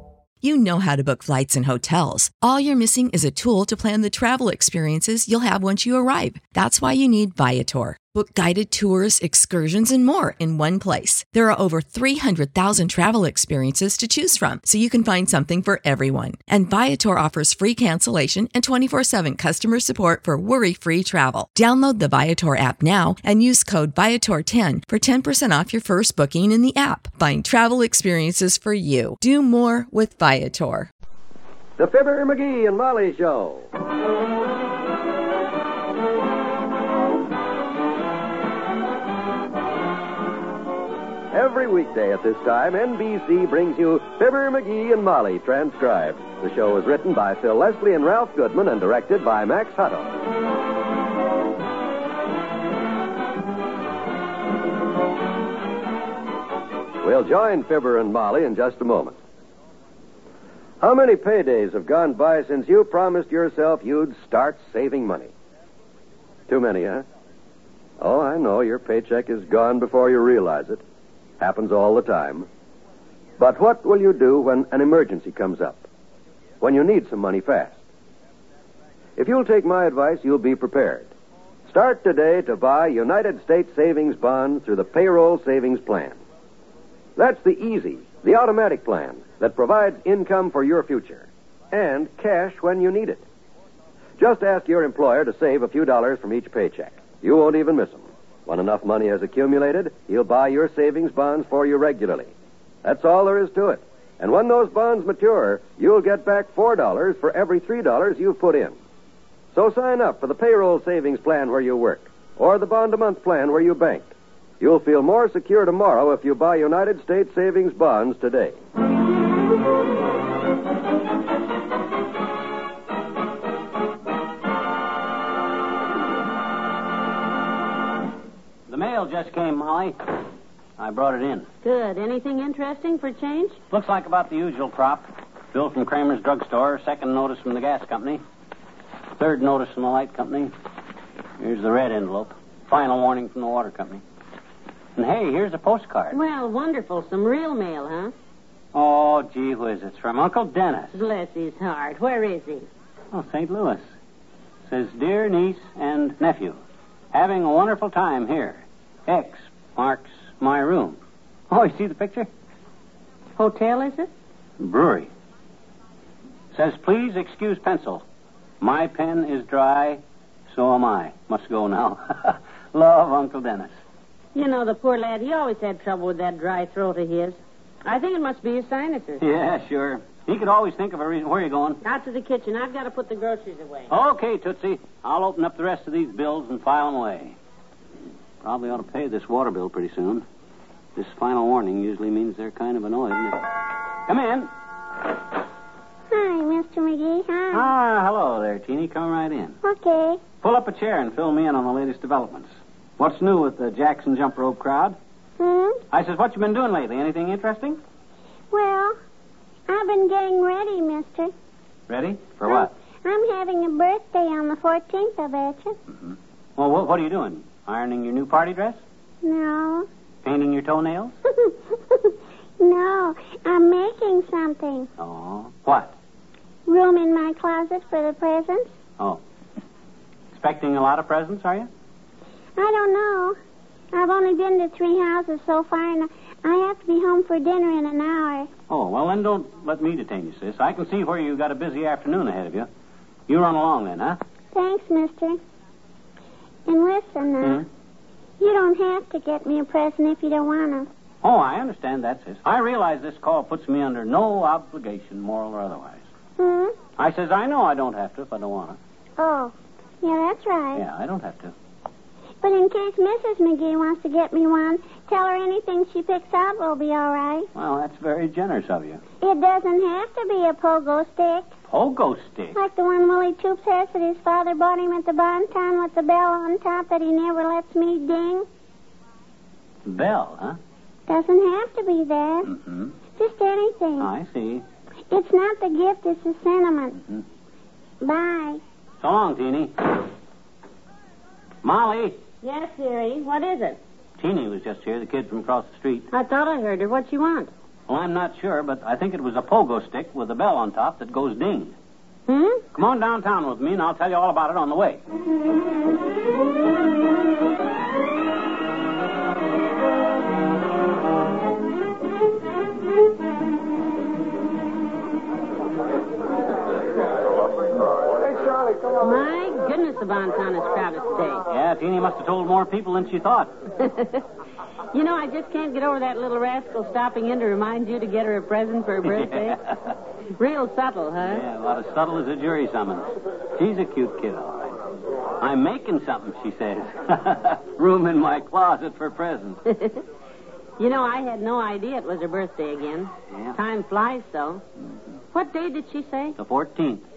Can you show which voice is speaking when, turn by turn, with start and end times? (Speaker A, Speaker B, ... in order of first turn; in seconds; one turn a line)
Speaker A: 0.4-30.9
Speaker B: 31.8-33.7
Speaker B: 41.3-50.1
Speaker B: 57.0-59.2
Speaker B: 60.8-65.3
Speaker B: 66.5-67.0
Speaker B: 68.0-70.8
Speaker B: 71.4-72.5
Speaker B: 73.4-75.8
Speaker B: 76.6-77.8
Speaker B: 79.2-81.1
Speaker B: 81.7-86.2
Speaker B: 87.2-93.2
Speaker B: 94.2-102.3
Speaker B: 102.8-108.8
Speaker B: 109.5-118.6
Speaker C: 128.7-130.0
Speaker C: 130.8-131.5
Speaker D: 131.6-133.6
Speaker C: 133.7-138.2
Speaker C: 139.2-140.5
Speaker C: 141.4-144.0
Speaker C: 144.9-146.2
Speaker D: 146.1-148.1
Speaker C: 148.7-151.0
Speaker D: 150.9-152.7
Speaker C: 153.1-153.8
Speaker C: 154.7-156.6
Speaker C: 157.1-161.0
Speaker C: 161.5-162.3
Speaker D: 163.4-164.1
Speaker C: 164.6-165.1
Speaker C: 166.5-168.0
Speaker C: 168.6-173.7
Speaker D: 174.3-179.2
Speaker C: 179.2-181.8
Speaker D: 181.8-183.9
Speaker C: 183.9-187.3
Speaker C: 188.4-190.2
Speaker C: 190.9-193.4
Speaker C: 194.1-194.5
Speaker E: 196.1-197.7
Speaker C: 197.5-199.6
Speaker E: 199.6-200.2
Speaker C: 200.4-204.9
Speaker E: 205.4-205.8
Speaker C: 205.9-207.8
Speaker E: 208.5-208.9
Speaker E: 209.7-211.3
Speaker C: 211.9-212.7
Speaker E: 212.4-215.8
Speaker C: 216.0-218.8
Speaker E: 219.2-219.9
Speaker C: 220.2-221.1
Speaker E: 221.3-224.9
Speaker C: 225.0-225.9
Speaker E: 226.7-228.7
Speaker C: 230.3-231.7
Speaker E: 232.6-233.4
Speaker E: 233.9-238.5
Speaker C: 238.7-242.7
Speaker C: 243.3-244.2
Speaker E: 244.5-245.4
Speaker E: 246.7-247.7
Speaker E: 248.4-250.9
Speaker C: 251.2-256.0
Speaker E: 256.4-256.8
Speaker C: 257.0-258.8
Speaker E: 259.2-260.9
Speaker C: 260.7-261.5
Speaker E: 262.4-267.5
Speaker C: 267.5-269.0
Speaker E: 269.2-271.5
Speaker C: 271.7-272.6
Speaker E: 272.5-278.5
Speaker C: 279.9-280.6
Speaker E: 281.1-282.5
Speaker C: 282.4-282.9
Speaker E: 283.1-284.1
Speaker C: 284.0-284.6
Speaker E: 285.1-287.0
Speaker E: 288.0-288.6
Speaker C: 289.0-289.7
Speaker C: 291.6-292.2
Speaker D: 292.4-293.8
Speaker C: 294.2-296.1
Speaker D: 296.1-297.5
Speaker C: 297.9-301.7
Speaker D: 302.3-302.6
Speaker C: 302.7-305.0
Speaker D: 318.9-321.4
Speaker C: 321.5-323.5
Speaker D: 323.8-324.2
Speaker D: 324.9-329.6
Speaker C: 329.0-329.9
Speaker D: 330.4-331.4
Speaker C: 331.2-334.8
Speaker C: 335.4-339.6
Speaker D: 339.7-340.0
Speaker D: 340.8-344.6
Speaker C: 343.3-343.6
Speaker D: 345.3-346.4
Speaker C: 346.4-347.1